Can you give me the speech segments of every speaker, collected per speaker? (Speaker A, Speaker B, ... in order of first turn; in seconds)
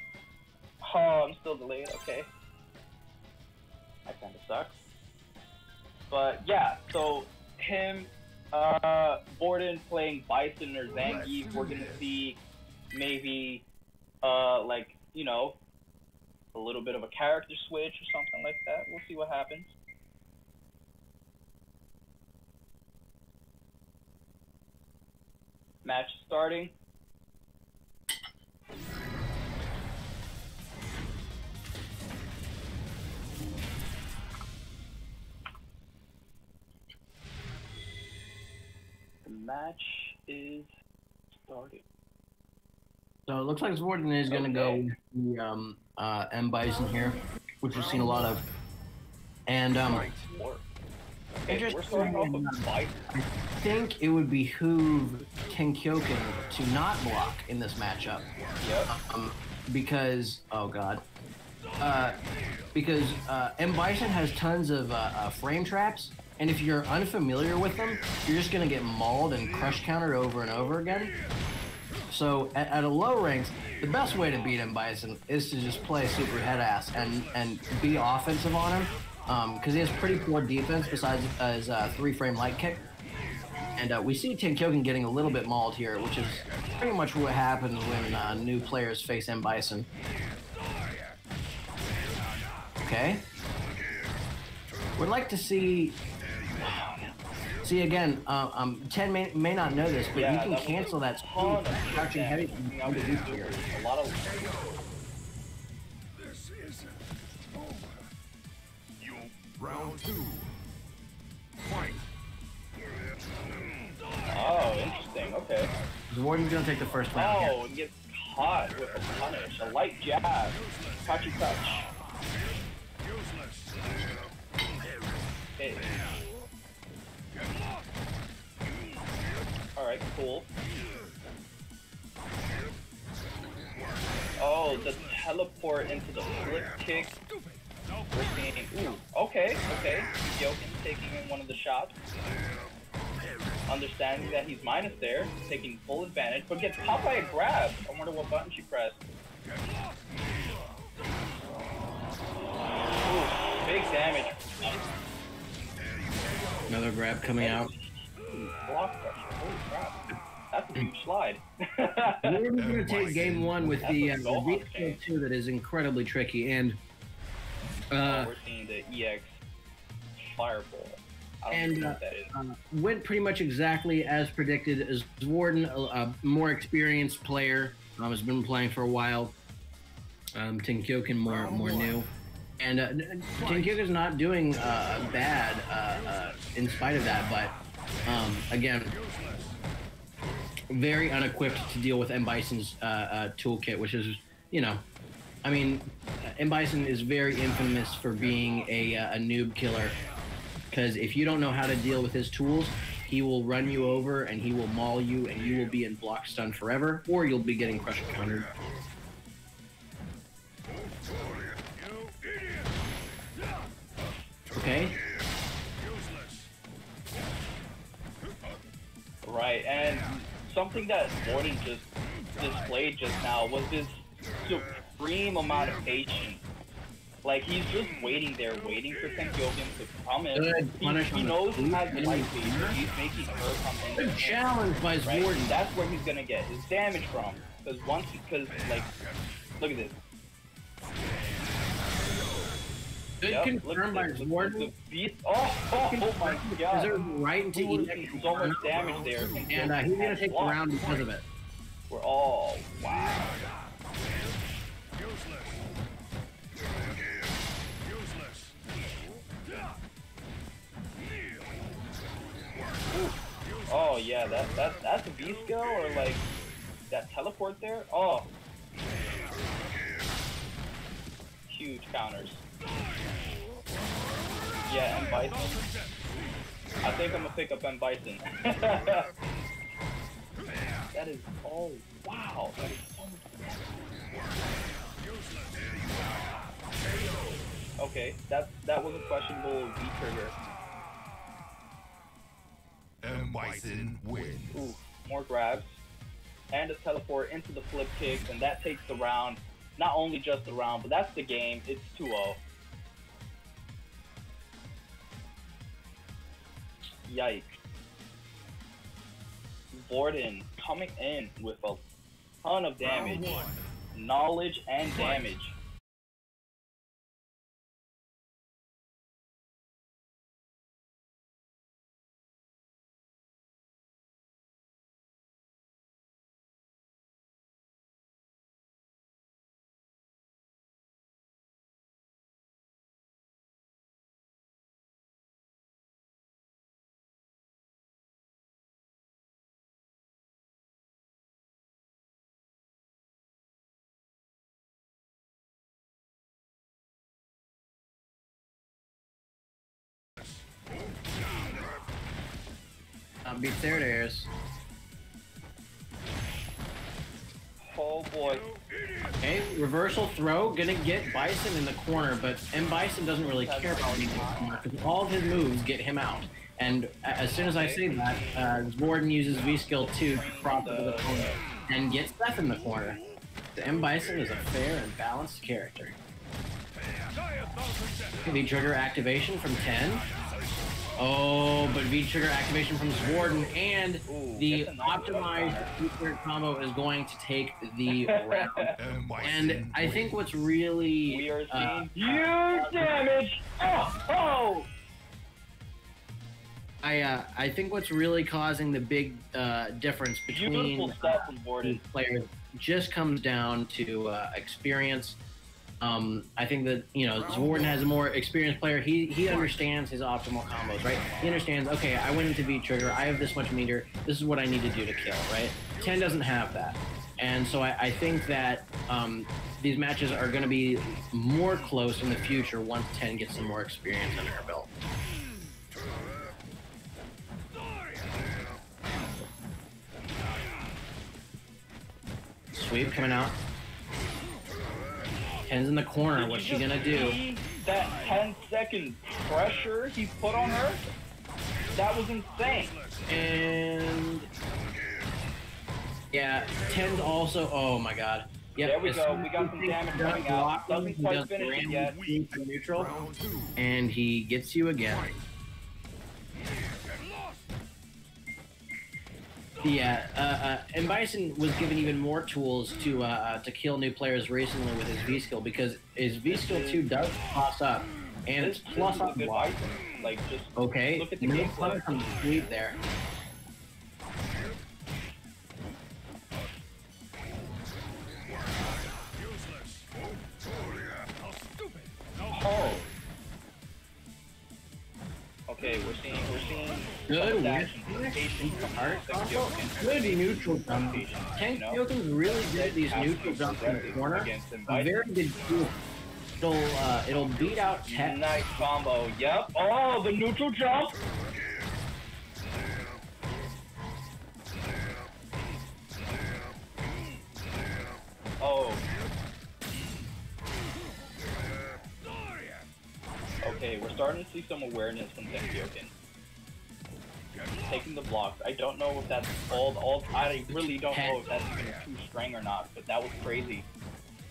Speaker A: 0.8-2.3, 4.1-4.8, 6.1-12.4, 12.9-13.7, 14.2-15.6, 16.5-19.7, 25.8-26.7, 39.2-40.7, 41.4-41.8, 44.3-44.8, 49.9-50.7, 51.5-53.0, 58.6-58.9, 96.6-97.1, 100.1-104.4, 114.3-115.7, 117.1-121.9, 125.6-125.9, 129.8-130.5, 134.4-137.2, 138.1-141.9, 143.7-149.0, 153.0-154.8, 157.2-162.4, 163.8-165.0, 168.1-169.3, 170.3-172.3, 219.2-226.4, 227.2-234.4, 235.0-238.9, 239.6-240.0, 243.3-247.0, 247.6-250.6, 251.9-253.4, 262.9-263.2, 263.7-266.3, 266.9-268.3, 271.5-272.4, 274.6-275.6, 276.8-279.1, 280.9-283.8, 287.8-290.4, 294.5-295.8, 296.5-302.4, 307.1-307.6, 309.7-311.8, 312.4-313.4, 313.9-315.6, 357.6-358.5, 363.2-364.6, 367.4-368.5, 370.0-371.4, 384.1-385.7, 387.9-388.7, 391.1-394.7, 400.3-401.8, 436.2-440.8, 441.8-442.8, 448.6-452.0, 466.3-466.9, 468.4-471.9, 482.3-482.9, 485.5-494.9, 497.9-501.0, 508.4-508.8, 513.4-515.9, 517.7-523.7
Speaker B: 43.3-48.5, 49.5-50.0, 51.5-58.3, 58.9-61.0, 61.8-62.2, 62.7-71.1, 72.1-82.8, 83.8-89.9, 92.8-93.3, 95.0-96.0, 97.6-103.6, 116.1-117.6, 156.7-157.7, 162.2-166.8, 167.9-168.3, 171.5-179.3, 180.4-182.1, 182.6-187.5, 188.1-189.0, 190.7-194.8, 195.4-195.9, 196.4-200.0, 200.7-208.5, 214.6-215.0, 230.3-232.8, 234.0-235.5, 243.2-244.7, 245.9-248.8, 249.5-251.2, 353.2-354.3, 359.2-373.0, 373.6-375.9, 378.2-380.1, 381.0-393.0, 396.8-405.2, 405.8-424.7, 432.5-433.4, 435.5-437.2, 443.1-444.3, 446.1-452.9, 453.6-455.1, 459.6-469.6, 470.6-472.8, 487.1-495.8, 496.4-498.7, 520.5-521.2
Speaker C: 109.6-109.9, 162.6-163.8, 293.0-294.6, 388.8-390.1